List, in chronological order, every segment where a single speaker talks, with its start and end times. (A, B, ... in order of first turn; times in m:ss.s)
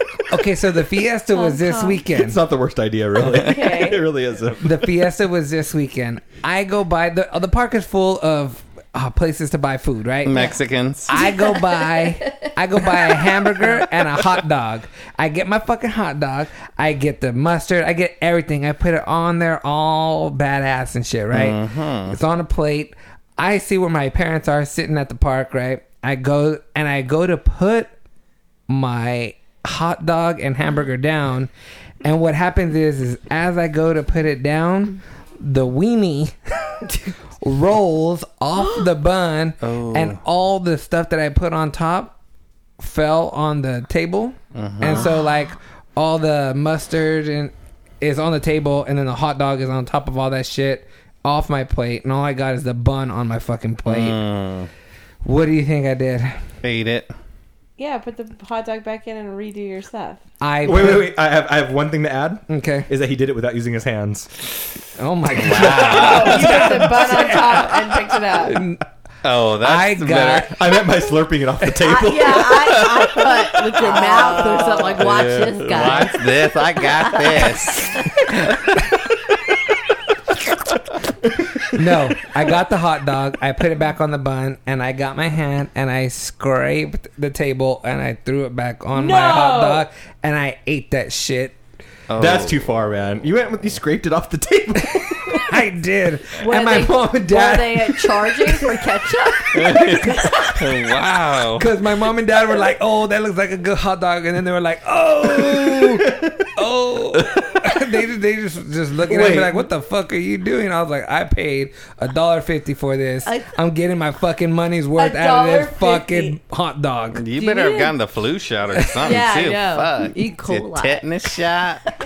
0:00.3-0:02.4 A
0:01.4-0:02.0 B
0:02.1-0:04.8 C
0:03.4-0:04.0 D
0:04.6-0:10.5 A
0:10.2-0:11.2 E
0:11.0-0:27.9 A
0:11.1-0:13.8 B
0:21.3-0:22.2 E
0:28.7-0:31.5 A
0:32.0-0:42.1 A
0:36.9-0:37.1 B
0:39.6-0:40.2 E
0:42.8-0:54.2 A
0:44.5-0:45.1 E
0:53.8-0:54.7 E
0:55.2-0:56.4 A
0:56.6-0:57.1 E
0:57.8-1:00.2 D
1:00.4-1:01.1 A
1:00.6-1:04.3 C
1:02.5-1:02.9 A
1:05.0-1:08.8 A
1:05.4-1:06.4 E
1:05.4-1:06.6 C
1:05.9-1:08.6 D
1:09.2-1:10.6 E
1:09.6-1:10.5 A
1:10.5-1:13.1 C
1:11.8-1:18.1 B
1:13.8-1:15.1 D
1:15.0-1:18.4 E
1:21.7-1:31.6 A
1:28.9-1:29.8 D
1:32.1-1:32.7 E
1:32.2-1:35.5 C
1:35.5-1:38.3 A
1:36.4-1:39.7 B
1:39.5-1:40.4 A
1:39.5-1:41.7 E
1:41.5-1:57.2 A
1:49.0-1:49.6 C
1:53.2-1:53.6 B
1:55.0-1:56.4 D
1:57.1-2:01.8 E
1:57.4-1:58.0 B
1:59.0-2:01.4 B